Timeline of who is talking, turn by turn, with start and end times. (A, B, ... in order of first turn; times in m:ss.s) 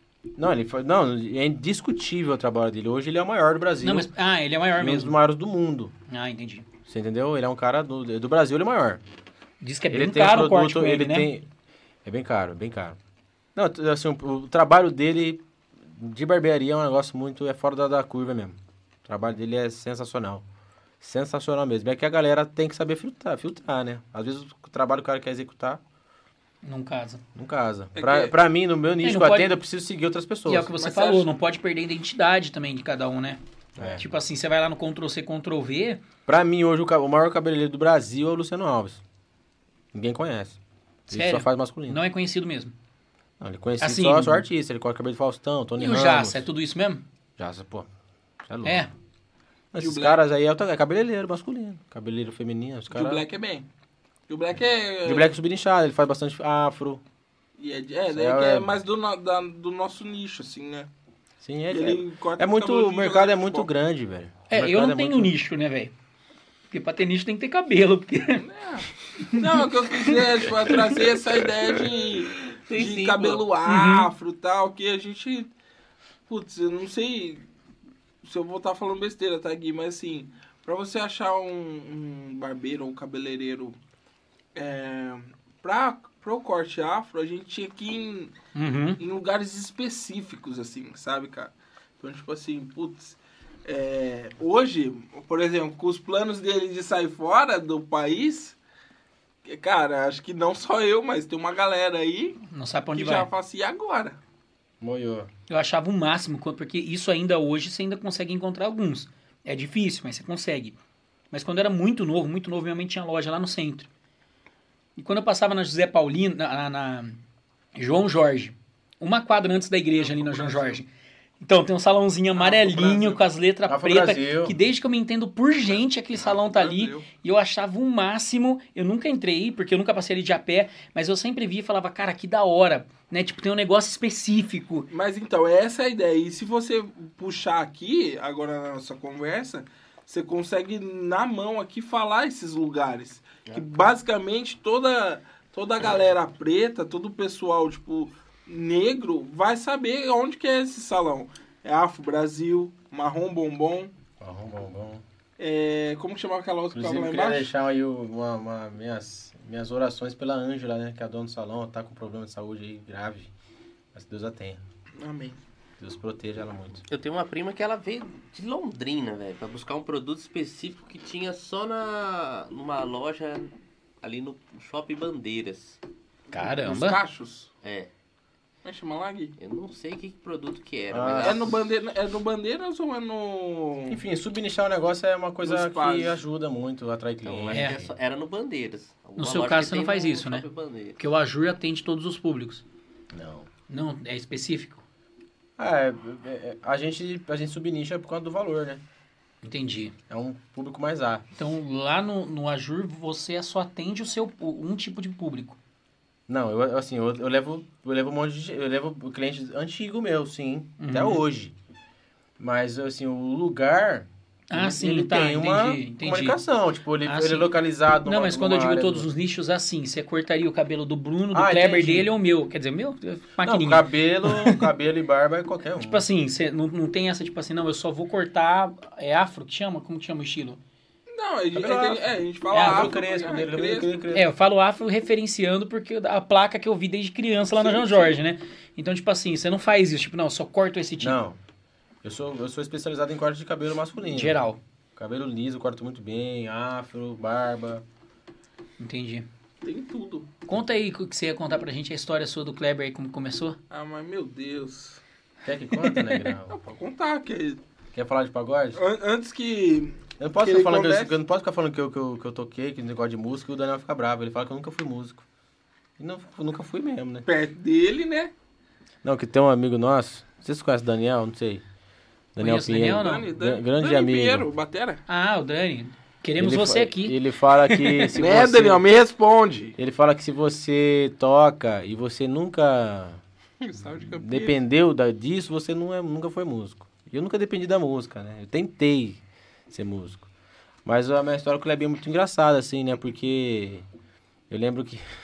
0:00.4-0:04.1 A
0:03.8-0:05.2 B
0:04.8-0:05.9 A
0:06.1-0:06.6 B
0:06.9-0:09.0 A
0:09.6-0:11.3 B
0:09.9-0:11.4 A
0:12.0-0:13.0 A
0:13.5-0:20.4 A
0:21.0-0:25.8 A
0:26.6-0:27.2 B
0:27.3-0:30.7 A
0:27.9-0:28.3 C
0:29.0-0:29.5 B
0:30.4-0:33.4 B
0:30.8-0:31.2 C
0:33.8-0:34.0 A
0:33.9-0:36.0 B
0:36.2-0:39.0 A
0:39.9-0:40.6 A
0:41.1-0:42.7 B
0:41.1-0:42.0 A
0:43.4-0:46.4 A
0:43.8-0:44.4 B
0:45.8-0:47.0 B
0:47.4-0:47.9 A
0:48.4-0:48.8 A
0:48.6-0:48.9 B
0:49.7-0:53.2 A
0:49.8-0:50.2 C
0:52.9-0:53.7 C
0:54.3-0:55.3 C
0:55.0-0:57.0 A
0:57.6-1:00.9 C
0:58.1-0:58.7 A
1:01.4-1:05.3 A
1:01.7-1:03.7 C
1:04.5-1:05.9 B
1:06.7-1:08.4 B
1:08.4-1:15.5 C
1:09.2-1:10.2 B
1:12.7-1:13.5 D
1:13.7-1:14.1 B
1:16.3-1:17.4 C
1:18.2-1:23.8 C
1:24.5-1:28.3 C
1:28.5-1:29.0 B
1:29.0-1:38.6 C
1:39.4-1:42.4 C
1:42.5-1:43.3 B
1:42.9-1:44.2 C
1:44.8-1:45.3 A
1:45.5-1:50.8 B
1:51.3-1:53.9 B
1:55.0-1:57.2 B
1:57.7-2:00.9 B
2:00.0-2:00.8 C
2:01.4-2:14.9 B
2:02.4-2:03.2 C
2:03.7-2:04.6 A
2:06.2-2:07.0 C
2:14.9-2:33.9 C
2:34.2-2:35.0 A
2:35.4-2:37.5 C
2:36.7-2:43.3 A
2:43.9-2:44.6 A
2:45.0-2:45.4 C
2:45.8-2:46.8 A
2:46.9-2:53.5 D
2:54.0-2:55.8 D
2:56.3-2:57.0 B
2:56.3-2:57.5 C
2:57.6-2:57.9 D
2:58.6-2:59.3 C
2:59.4-3:01.5 D
3:00.9-3:01.5 A
3:01.2-3:04.0 C
3:03.9-3:07.9 A
3:05.4-3:06.2 C
3:07.2-3:11.0 D
3:07.5-3:07.8 B
3:09.2-3:12.6 B
3:13.1-3:13.5 A
3:13.7-3:14.8 B
3:15.6-3:18.8 A
3:19.4-3:19.9 B
3:20.1-3:21.3 A
3:21.4-3:25.6 B
3:26.3-3:31.5 A
3:30.8-3:31.2 B
3:32.4-3:39.1 A
3:34.5-3:36.4 B
3:37.0-3:37.5 B
3:38.0-3:44.7 B
3:41.3-3:42.1 A
3:43.4-3:46.0 A
3:45.8-3:50.6 B
3:51.1-3:53.9 C
3:51.5-3:54.3 A
3:52.5-3:52.9 B
3:54.1-4:01.2 B
3:57.5-3:58.2 C
4:01.0-4:01.4 A
4:02.0-4:04.4 A
4:04.1-4:04.6 B
4:05.0-4:07.8 A
4:08.8-4:09.3 B
4:09.6-4:10.3 C
4:10.4-4:13.6 B
4:13.7-4:15.0 C
4:15.4-4:16.6 A
4:15.9-4:16.2 B
4:16.5-4:17.6 C
4:17.9-4:18.8 A
4:18.7-4:21.1 C
4:20.2-4:25.2 A
4:26.0-4:27.3 A
4:27.2-4:28.3 C
4:29.0-4:31.6 A
4:32.3-4:34.5 A
4:32.4-4:33.3 B
4:32.9-4:35.0 C
4:35.1-4:38.1 B
4:36.4-4:38.8 A
4:38.2-4:39.8 C
4:39.8-4:43.2 A
4:43.6-4:44.6 C
4:44.1-4:50.2 A
4:50.8-4:53.8 A
4:54.5-4:55.0 A